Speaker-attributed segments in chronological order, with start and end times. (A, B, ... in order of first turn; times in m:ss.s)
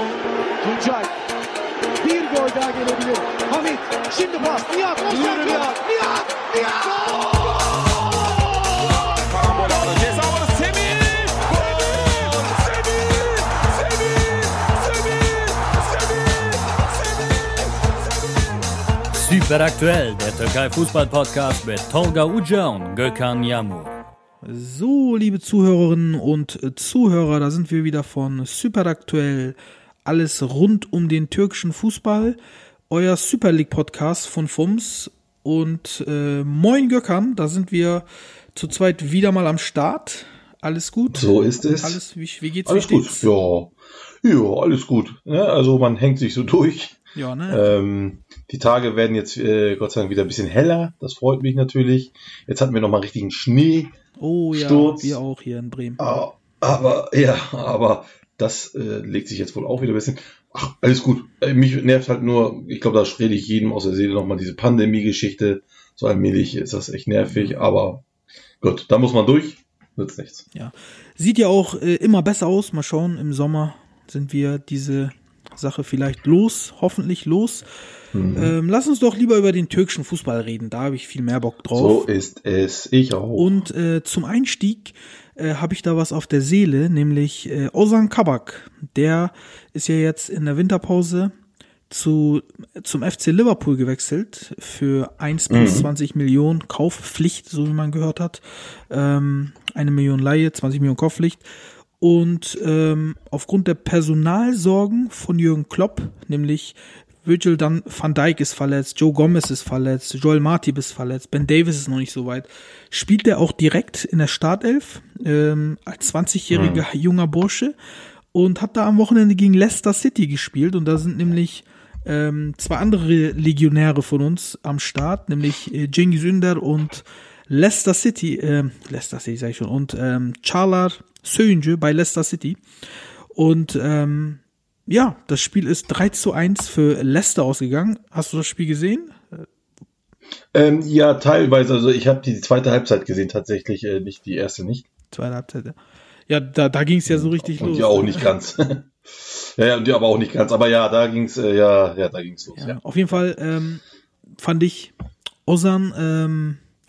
0:00.6-0:01.1 A
0:02.0-0:07.2 A
0:05.0-0:05.8 B
0:07.0-0:07.4 B
0:09.0-0:14.2 B
0:19.1-0:23.9 C
0:24.4-0:32.4 D
0:32.9-0:43.3 D
0:41.1-0:42.0 E
0:42.6-0:46.9 E
0:47.1-0:47.6 D
0:47.5-0:53.9 E
0:54.2-0:56.0 D
0:54.5-0:55.2 E
0:56.0-1:08.0 E
1:07.3-1:07.6 D
1:08.6-1:10.4 E
1:10.5-1:17.6 D
1:18.1-1:18.5 E
1:18.3-1:22.1 D
1:21.8-1:23.5 E
1:23.4-1:31.3 D
1:31.9-1:41.4 D
1:35.5-1:35.9 E
1:42.0-1:57.7 D
1:56.5-1:56.8 E
1:58.3-2:12.6 D
2:13.3-2:19.5 D
2:20.5-2:24.8 E
2:25.1-2:25.8 D
2:26.3-2:28.3 D
2:27.1-2:32.8 E
2:32.6-2:33.8 D
2:34.4-2:34.9 D
2:35.4-2:36.6 D